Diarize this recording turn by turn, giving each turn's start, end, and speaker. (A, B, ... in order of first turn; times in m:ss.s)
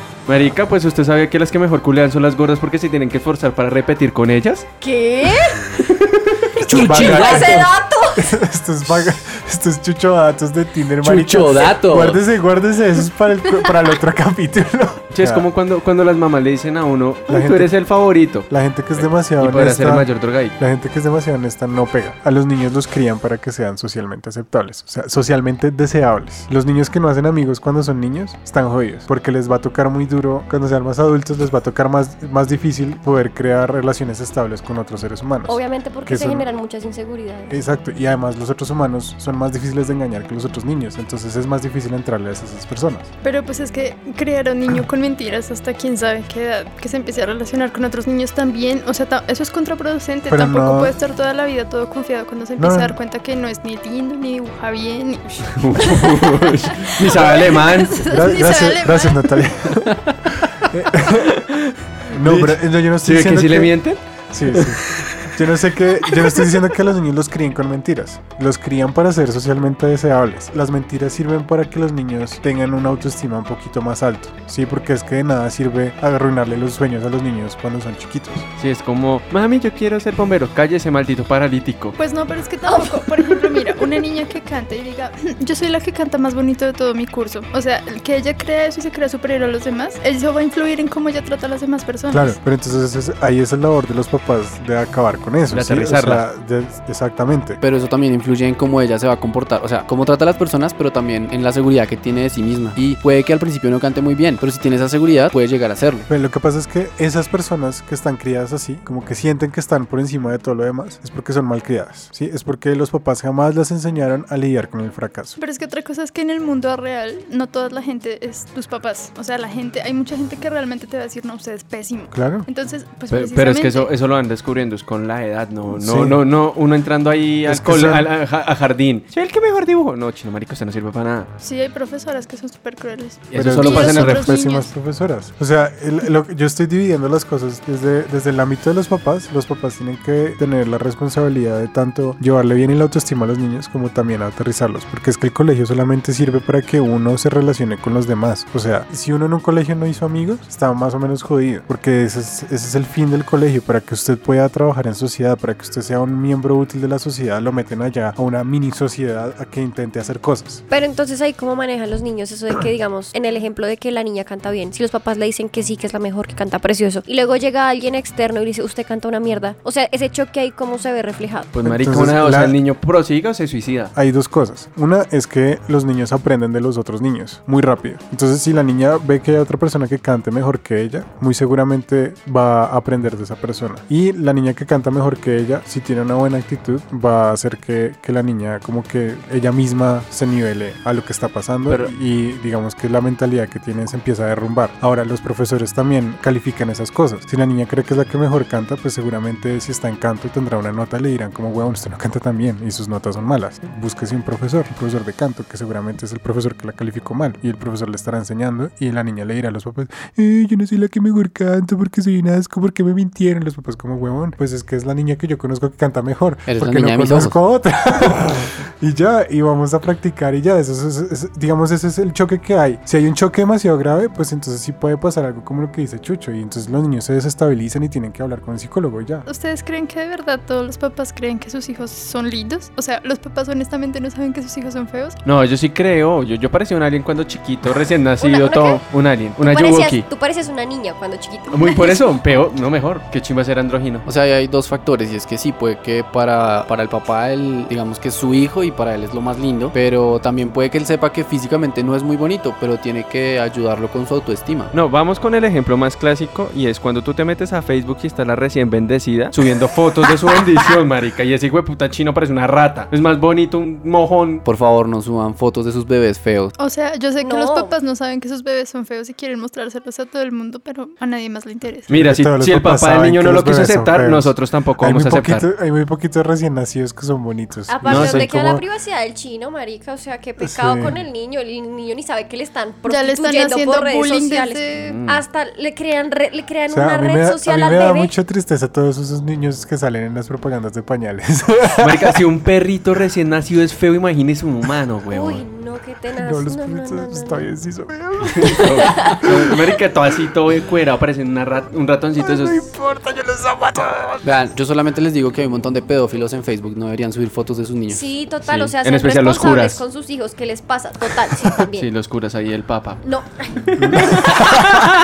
0:00.3-0:04.6 A
0:04.8-0:05.8 B
0:06.0-0:07.4 A
0:06.6-0:08.3 B
0:06.7-0:15.5 C
0:11.0-0:12.2 D
0:15.1-0:20.5 A
0:17.3-0:17.7 C
0:18.5-0:36.5 C
0:35.5-0:37.6 B
0:37.5-0:43.1 C
0:43.2-0:59.5 E
0:50.3-0:50.9 C
0:52.6-0:53.0 C
0:55.5-0:58.0 A
0:58.1-1:01.4 C
1:01.1-1:05.3 A
1:02.1-1:03.8 C
1:04.3-1:18.4 C
1:18.6-1:22.0 A
1:22.0-1:32.4 E
1:22.7-1:23.1 B
1:32.1-1:37.6 C
1:35.5-1:36.2 A
1:37.6-1:46.0 D
1:46.1-1:55.4 C
1:55.4-2:03.9 E
2:02.1-2:02.5 C
2:03.1-2:11.3 A
2:05.7-2:06.2 C
2:07.4-2:08.1 C
2:11.4-2:14.7 E
2:13.3-2:14.4 A
2:13.3-2:40.6 C
2:40.7-2:51.5 B
2:51.5-2:53.9 A
2:51.6-2:52.6 C
2:53.9-3:49.2 C
3:11.7-3:11.9 A
3:36.5-3:37.4 D
3:49.2-3:55.2 E
3:55.2-4:00.0 A
3:58.2-3:58.8 B
3:59.4-4:02.1 B
4:01.5-4:04.0 A
4:04.0-4:14.7 D
4:14.7-4:24.4 A
4:24.4-4:26.5 D
4:26.6-4:31.9 E
4:27.2-4:27.8 B
4:31.9-4:35.4 A
4:31.9-4:38.6 C
4:37.7-4:48.1 B
4:37.8-4:38.3 A
4:40.4-4:41.0 C
4:42.9-4:44.9 E
4:44.8-4:45.2 A
4:46.7-4:52.2 C
4:51.8-4:55.4 A
4:55.1-4:57.4 B
4:56.1-4:59.3 C
4:58.3-5:02.7 A
4:58.4-4:59.5 B
5:02.2-5:04.2 C
5:04.2-5:08.0 D
5:07.9-5:11.9 B
5:08.5-5:09.8 A
5:11.8-5:13.0 A
5:13.0-5:14.6 B
5:13.8-5:14.1 C
5:13.9-5:14.9 A